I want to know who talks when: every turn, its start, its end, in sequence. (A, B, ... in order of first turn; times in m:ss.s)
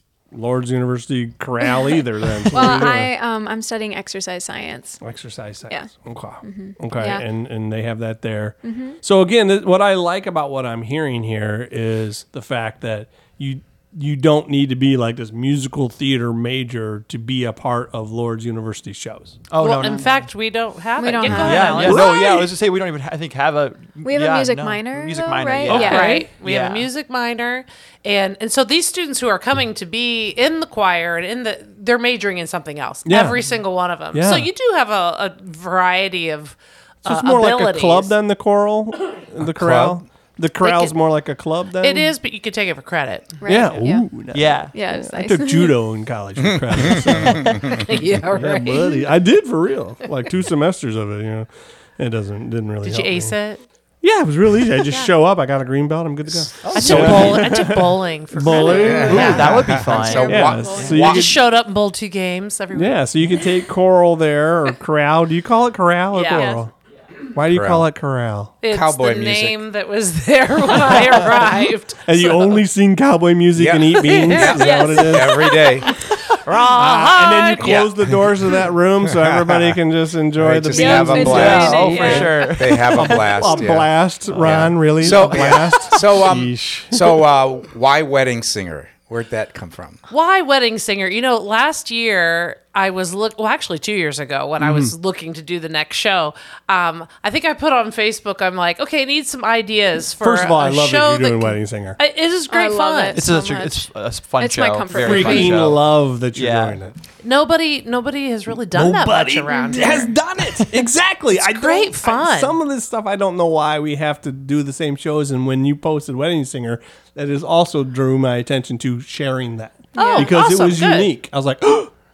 0:00.3-0:03.1 A
0:02.5-0:05.0 B
0:05.0-0:19.4 A
0:06.4-0:07.2 B
0:08.6-0:09.0 B
0:19.5-0:20.2 C
0:19.6-0:22.1 D
0:21.0-0:22.5 B
0:21.2-0:26.9 C
0:21.8-0:22.1 A
0:24.0-0:26.2 B
0:25.7-0:26.3 A
0:25.7-0:38.1 D
0:33.1-0:33.4 A
0:34.1-0:34.5 A
0:37.0-0:42.1 A
0:39.4-0:40.0 E
0:40.6-0:40.9 D
0:41.8-0:43.4 D
0:43.4-0:44.1 B
0:43.4-0:53.3 A
0:44.3-0:44.7 C
0:44.7-0:45.8 B
0:46.4-0:47.9 E
0:47.7-0:49.1 D
0:52.8-0:53.6 D
0:54.0-1:01.4 A
0:54.8-0:55.1 D
0:56.4-0:57.2 E
0:56.6-0:57.5 C
0:56.7-0:59.6 D
0:58.5-1:01.0 B
0:58.6-1:01.3 E
0:59.0-1:00.9 C
1:00.8-1:03.0 D
1:02.7-1:06.7 A
1:06.1-1:06.6 D
1:06.3-1:06.6 B
1:07.3-1:08.6 A
1:07.5-1:07.9 E
1:08.6-1:12.6 D
1:08.6-1:09.6 E
1:12.0-1:15.5 A
1:13.6-1:16.0 E
1:14.0-1:14.9 D
1:14.5-1:15.6 B
1:16.1-1:17.9 D
1:16.6-1:27.2 A
1:17.6-1:18.4 E
1:19.1-1:19.8 E
1:20.4-1:30.0 E
1:20.7-1:22.5 B
1:21.2-1:23.6 C
1:24.4-1:25.4 C
1:30.1-1:43.2 D
1:34.6-1:34.9 A
1:40.2-1:42.0 A
1:42.5-1:43.9 B
1:43.1-1:46.8 C
1:44.4-1:45.7 B
1:44.9-1:47.0 A
1:47.2-1:50.2 D
1:48.7-2:01.9 A
1:49.5-1:50.0 B
1:51.3-1:52.6 D
2:00.0-2:00.3 B
2:00.0-2:01.1 D